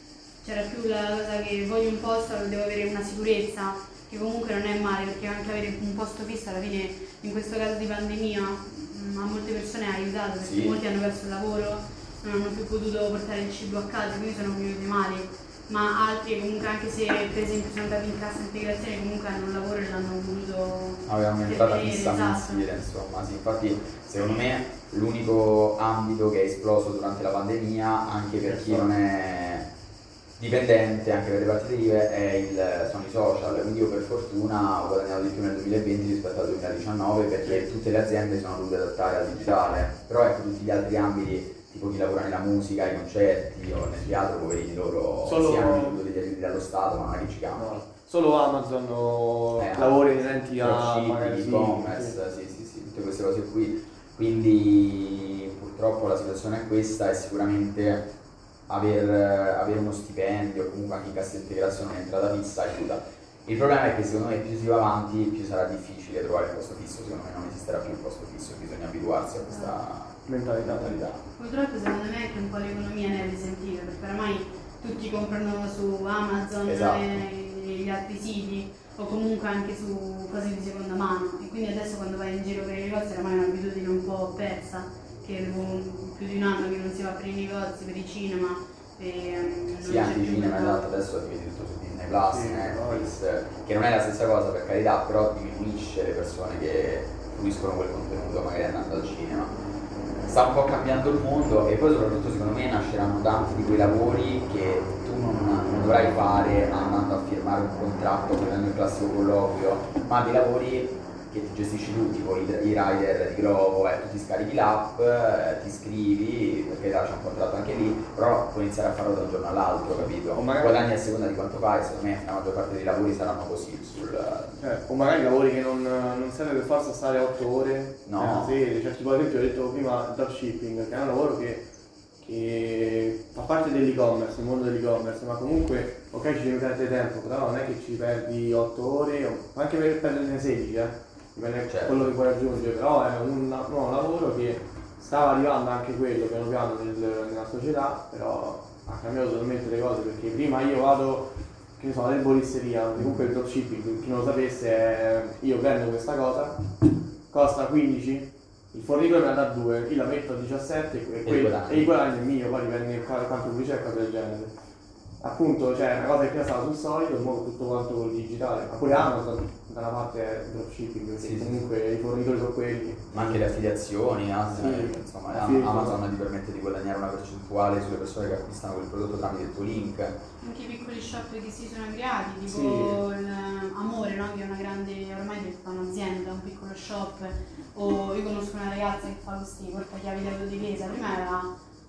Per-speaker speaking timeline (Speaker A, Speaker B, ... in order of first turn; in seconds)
Speaker A: 0.4-22.7, 69.5-69.7, 71.4-90.8, 180.4-191.5
Speaker B: 10.4-10.8, 21.1-29.7, 30.4-47.8, 49.6-58.1, 58.7-71.2, 76.7-77.1, 89.8-99.5, 100.2-124.7, 128.1-128.6, 141.7-142.1, 161.2-161.9, 171.2-171.6, 173.1-180.2
Speaker C: 28.4-28.9, 45.2-46.0, 47.6-52.2, 70.3-71.0, 92.3-93.1, 120.3-120.8, 124.6-131.7, 132.2-156.6, 157.3-164.5, 165.2-173.1, 174.5-176.0, 182.5-183.0